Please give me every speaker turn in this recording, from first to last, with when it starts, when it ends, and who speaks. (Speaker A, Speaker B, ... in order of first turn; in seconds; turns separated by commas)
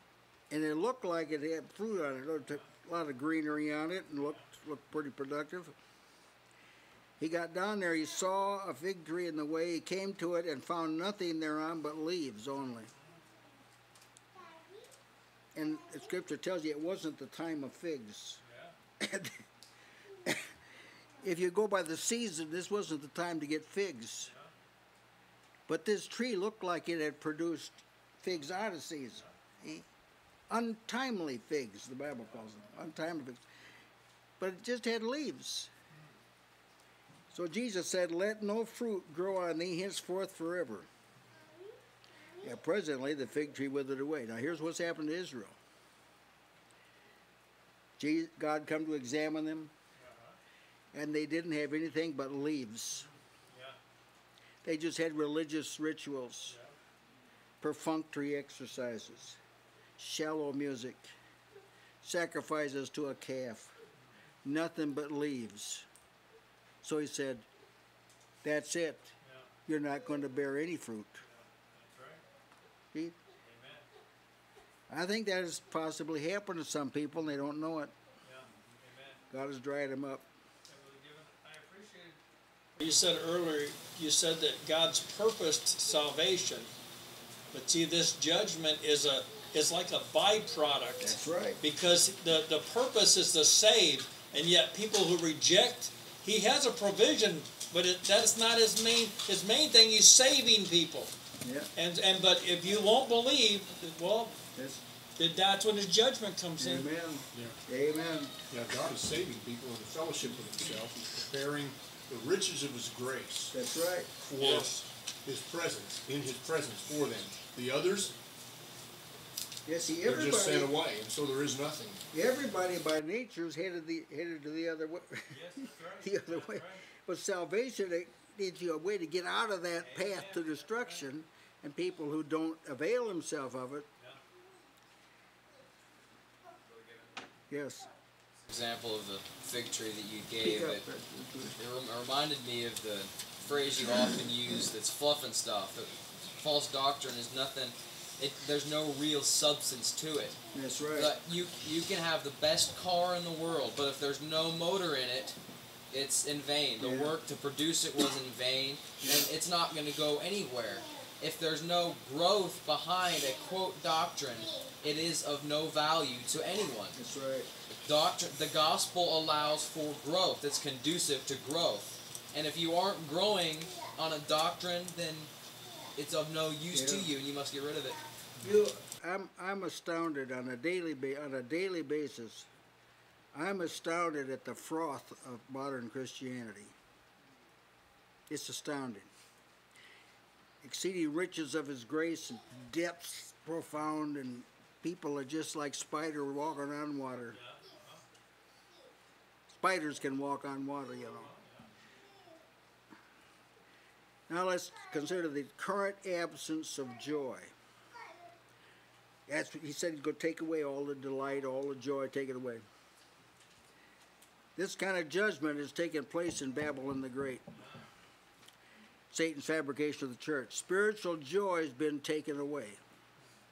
Speaker A: 0.5-5.7, Speaker A: 7.2-12.9, Speaker A: 15.5-18.4, Speaker B: 18.4-18.7, Speaker A: 19.0-19.3, Speaker A: 21.2-24.3, Speaker A: 25.7-29.9, Speaker A: 30.5-33.4, Speaker A: 34.4-35.7, Speaker A: 37.3-40.9, Speaker A: 42.4-45.5, Speaker A: 48.0-49.7, Speaker B: 50.0-50.4, Speaker A: 50.9-53.1, Speaker B: 53.5-53.8, Speaker A: 54.6-56.5, Speaker A: 57.6-59.4, Speaker A: 60.0-61.1, Speaker A: 62.0-63.7, Speaker A: 64.4-65.8, Speaker A: 66.8-67.5, Speaker A: 68.4-69.1, Speaker A: 69.7-71.2, Speaker B: 71.3-72.2, Speaker B: 73.4-73.8, Speaker A: 74.9-77.9, Speaker B: 78.2-79.2, Speaker A: 79.3-80.2, Speaker B: 80.7-82.2, Speaker B: 82.8-86.7, Speaker B: 87.5-101.1, Speaker A: 91.0-91.6, Speaker A: 101.4-101.7, Speaker B: 101.7-104.4, Speaker A: 104.5-104.8, Speaker B: 105.2-106.9, Speaker A: 106.6-108.3, Speaker C: 107.3-107.6, Speaker C: 108.5-113.5, Speaker A: 113.5-114.1, Speaker C: 114.2-118.1, Speaker B: 114.4-114.7, Speaker A: 119.7-120.7, Speaker C: 120.0-122.0, Speaker A: 122.1-125.3, Speaker B: 125.3-126.8, Speaker A: 126.0-133.8, Speaker B: 129.9-130.6, Speaker A: 137.5-137.9, Speaker D: 138.5-140.8, Speaker A: 140.4-141.6, Speaker D: 141.6-150.4, Speaker A: 143.8-144.2, Speaker A: 150.5-151.1, Speaker D: 150.9-155.4, Speaker D: 155.9-167.0, Speaker A: 156.8-157.2, Speaker A: 159.0-159.3, Speaker A: 166.9-167.5, Speaker D: 167.7-175.3, Speaker D: 175.9-178.0, Speaker A: 176.7-177.1, Speaker A: 178.4-182.5, Speaker A: 183.3-186.7, Speaker A: 188.3-189.1, Speaker A: 190.6-197.4, Speaker B: 197.3-198.0, Speaker A: 199.5-201.3, Speaker B: 201.3-201.6, Speaker A: 204.3-207.5, Speaker A: 209.3-212.6, Speaker A: 214.6-217.5, Speaker A: 219.1-222.8